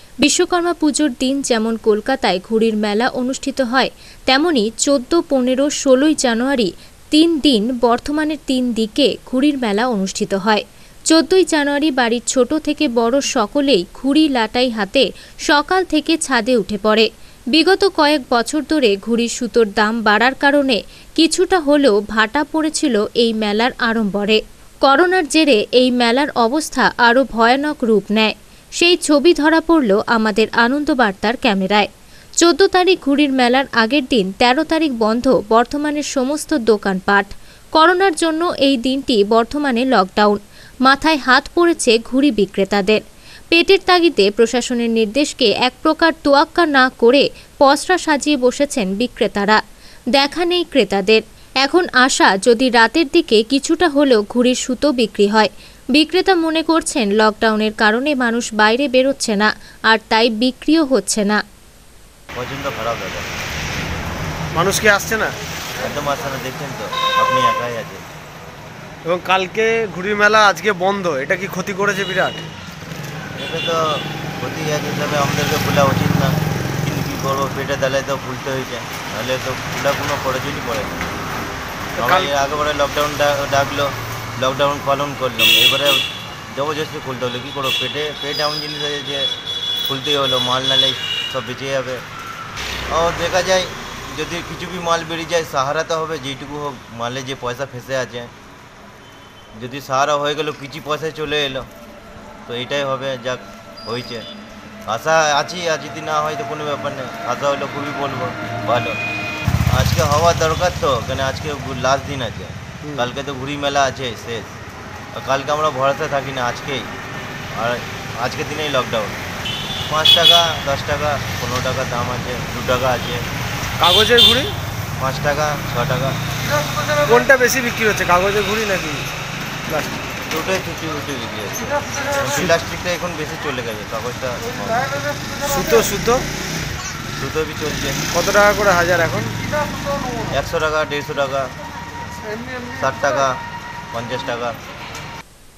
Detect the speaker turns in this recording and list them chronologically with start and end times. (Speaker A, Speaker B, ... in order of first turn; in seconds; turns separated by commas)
Speaker A: 0.2-31.9, Speaker A: 32.4-43.0, Speaker A: 43.5-49.6, Speaker A: 50.1-61.4, Speaker B: 62.4-63.3, Speaker C: 64.5-65.3, Speaker B: 65.8-68.0, Speaker C: 69.1-72.5, Speaker B: 73.4-81.2, Speaker C: 82.0-82.3, Speaker B: 82.0-89.3, Speaker B: 89.9-92.0, Speaker B: 92.9-98.3, Speaker B: 99.6-101.7, Speaker B: 102.5-104.2, Speaker B: 104.9-109.0, Speaker B: 109.7-114.6, Speaker C: 112.8-113.1, Speaker B: 115.2-116.9, Speaker B: 117.5-119.2, Speaker B: 119.9-123.2, Speaker C: 123.8-124.5, Speaker B: 125.0-126.2, Speaker C: 127.0-129.1, Speaker C: 129.7-130.1, Speaker B: 130.3-135.1, Speaker C: 132.3-132.5, Speaker C: 135.4-136.2, Speaker B: 137.2-138.0, Speaker C: 138.1-139.3, Speaker B: 140.3-141.5, Speaker B: 142.7-143.3, Speaker B: 143.9-144.6